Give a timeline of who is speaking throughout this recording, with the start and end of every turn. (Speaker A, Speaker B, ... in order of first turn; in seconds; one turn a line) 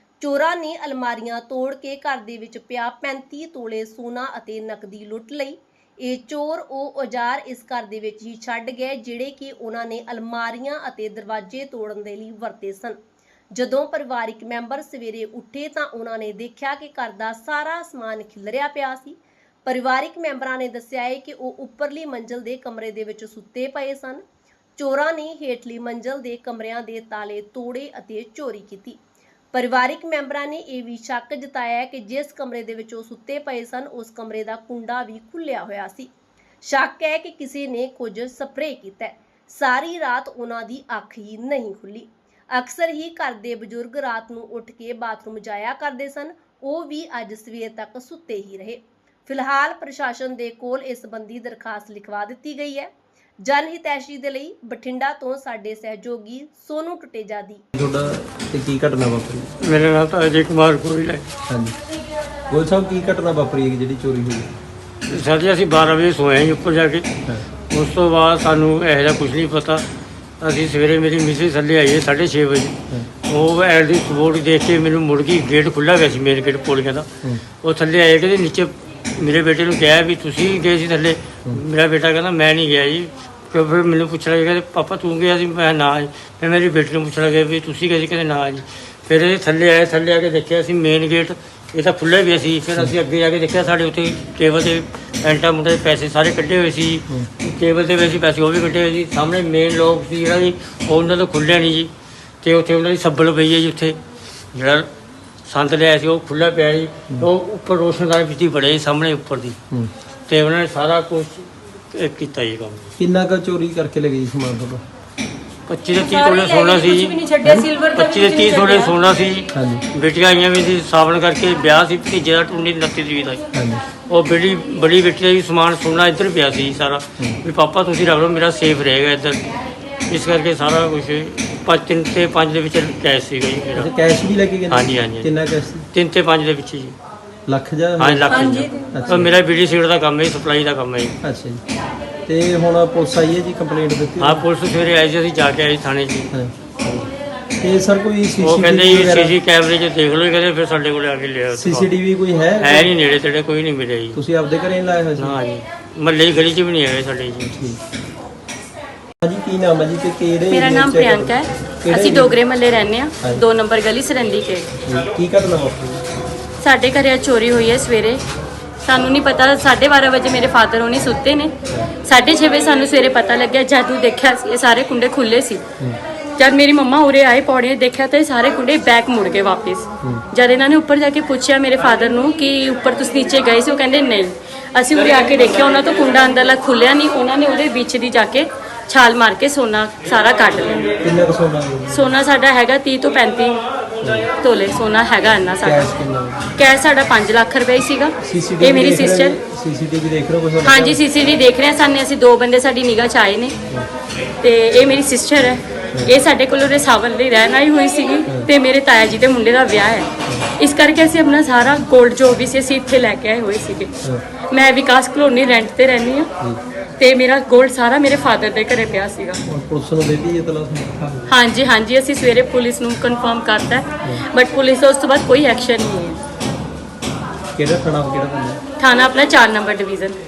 Speaker A: 0.2-13.0
Speaker A: 13.5-24.2
Speaker A: 24.8-29.0
Speaker A: 29.5-36.1
Speaker A: 36.6-52.9
Speaker A: 53.4-57.6
Speaker B: 57.7-59.5
Speaker C: 59.6-61.3
Speaker B: 61.5-61.8
Speaker B: 62.5-64.5
Speaker C: 65.1-67.1
Speaker C: 67.7-69.8
Speaker C: 70.4-77.1
Speaker C: 77.6-101.9
Speaker C: 102.4-104.0
Speaker C: 104.5-104.9
Speaker C: 105.5-109.6
Speaker C: 110.3-112.9
Speaker B: 113.0-114.8
Speaker C: 115.7-117.2
Speaker D: 115.9-119.0
Speaker C: 117.8-123.4
Speaker B: 119.5-119.8
Speaker B: 123.5-123.8
Speaker C: 124.1-129.4
Speaker C: 130.1-133.9
Speaker B: 133.7-135.8
Speaker C: 134.7-135.3
Speaker C: 135.9-136.9
Speaker B: 137.4-139.3
Speaker C: 138.0-141.2
Speaker D: 138.3-139.1
Speaker B: 141.2-141.6
Speaker B: 142.3-144.4
Speaker C: 144.2-147.1
Speaker B: 147.6-149.3
Speaker C: 148.4-151.9
Speaker B: 151.5-152.9
Speaker C: 152.6-154.2
Speaker B: 154.1-155.4
Speaker C: 155.2-157.5
Speaker B: 157.5-157.8
Speaker B: 159.2-162.3
Speaker D: 160.5-164.7
Speaker B: 164.8-166.0
Speaker D: 166.6-168.2
Speaker D: 168.8-175.6
Speaker D: 176.4-190.9
Speaker B: 191.0-192.1
Speaker D: 191.9-193.6
Speaker B: 194.0-194.3
Speaker D: 194.4-195.9
Speaker B: 195.6-196.5
Speaker D: 196.6-199.3
Speaker B: 198.2-201.0
Speaker D: 200.6-203.6
Speaker D: 204.4-213.9
Speaker D: 214.5-216.3
Speaker D: 217.0-219.4
Speaker B: 219.4-221.3
Speaker D: 221.3-226.2
Speaker B: 227.5-228.6
Speaker D: 228.8-230.2